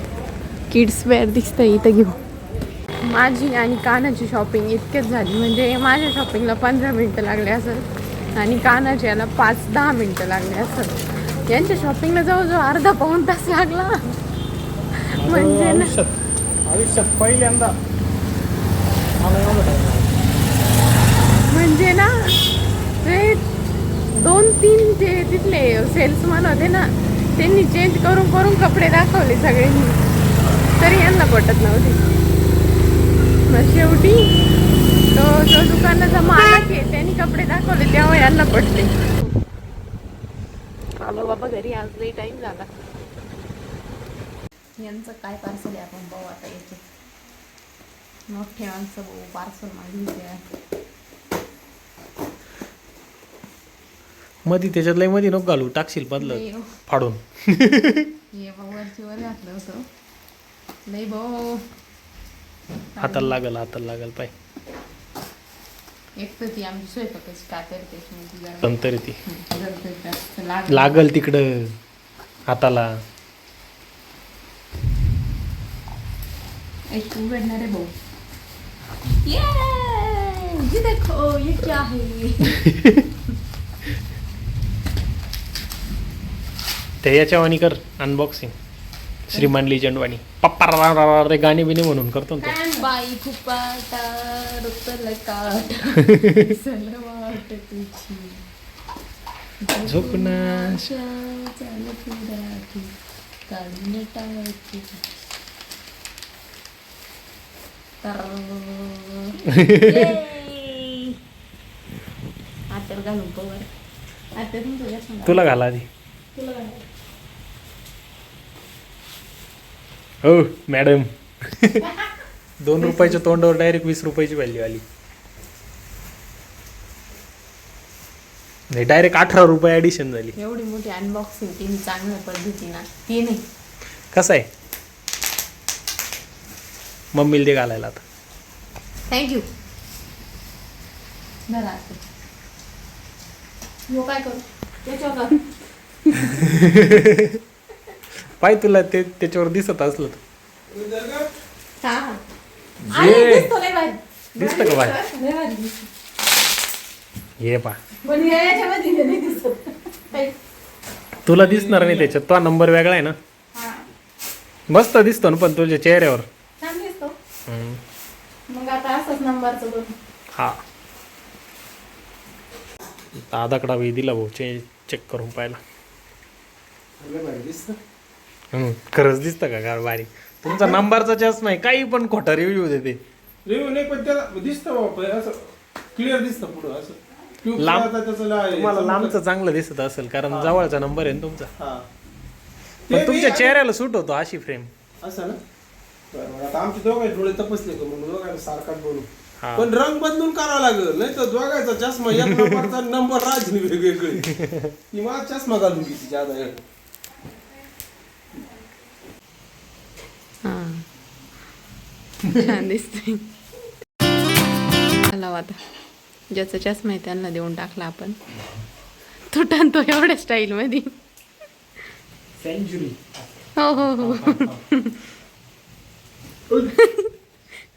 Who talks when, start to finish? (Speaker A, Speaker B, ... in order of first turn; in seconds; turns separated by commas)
Speaker A: 0.7-2.2, Speaker A: 3.0-14.2, Speaker A: 15.0-15.9, Speaker B: 15.2-17.8, Speaker B: 19.2-20.2, Speaker A: 21.5-22.4, Speaker A: 23.0-23.4, Speaker A: 24.1-30.0, Speaker A: 30.8-32.0, Speaker A: 33.5-34.3, Speaker A: 35.1-39.1, Speaker A: 41.0-42.7, Speaker A: 44.8-46.8, Speaker A: 48.3-50.4, Speaker B: 54.5-58.1, Speaker A: 56.2-56.8, Speaker A: 58.3-59.9, Speaker A: 60.9-61.7, Speaker A: 63.0-63.4, Speaker B: 63.0-64.3, Speaker A: 66.2-71.1, Speaker B: 68.6-69.2, Speaker B: 70.7-71.8, Speaker B: 72.5-72.9, Speaker A: 76.9-77.9, Speaker A: 79.2-82.6, Speaker B: 82.6-83.0, Speaker B: 87.0-88.5, Speaker B: 89.3-92.6, Speaker A: 92.4-98.4, Speaker B: 96.0-96.5, Speaker A: 99.6-102.9, Speaker B: 99.8-100.9, Speaker A: 103.5-105.0, Speaker A: 108.0-111.1, Speaker B: 109.5-109.8, Speaker A: 112.7-113.7, Speaker A: 114.4-115.5, Speaker B: 115.2-115.9, Speaker A: 116.3-116.8, Speaker B: 120.2-121.9, Speaker B: 122.6-124.8, Speaker A: 122.8-123.2, Speaker B: 128.7-130.3, Speaker A: 130.3-133.4, Speaker B: 134.1-134.5, Speaker B: 137.1-138.0, Speaker A: 139.1-139.5, Speaker A: 141.5-142.0, Speaker A: 143.9-145.5, Speaker A: 146.0-146.4, Speaker B: 146.4-147.4, Speaker B: 148.3-150.2, Speaker C: 150.7-151.3, Speaker A: 151.8-152.2, Speaker A: 152.9-155.9, Speaker B: 152.9-153.2, Speaker C: 152.9-153.5, Speaker B: 154.4-155.0, Speaker B: 157.4-157.8, Speaker A: 158.0-160.3, Speaker B: 161.2-163.2, Speaker C: 161.4-162.1, Speaker B: 164.7-166.3, Speaker A: 166.6-167.1, Speaker B: 167.5-167.8, Speaker A: 168.5-169.9, Speaker B: 170.3-170.6, Speaker B: 173.1-175.6, Speaker C: 177.0-177.8, Speaker B: 178.5-183.0, Speaker C: 180.5-180.8, Speaker C: 183.5-189.2, Speaker B: 187.6-187.9, Speaker B: 188.5-191.5, Speaker C: 190.3-190.6, Speaker C: 191.6-191.8, Speaker C: 192.9-193.6, Speaker B: 192.9-194.7, Speaker C: 195.0-195.4, Speaker C: 196.1-204.3, Speaker B: 199.4-199.7, Speaker B: 202.1-202.7, Speaker B: 204.3-204.7, Speaker C: 204.9-206.6, Speaker A: 210.4-210.8, Speaker A: 212.3-213.2, Speaker A: 215.0-215.6, Speaker A: 216.3-218.2, Speaker A: 219.3-220.9, Speaker B: 222.4-224.6, Speaker A: 223.6-225.0, Speaker A: 226.7-227.1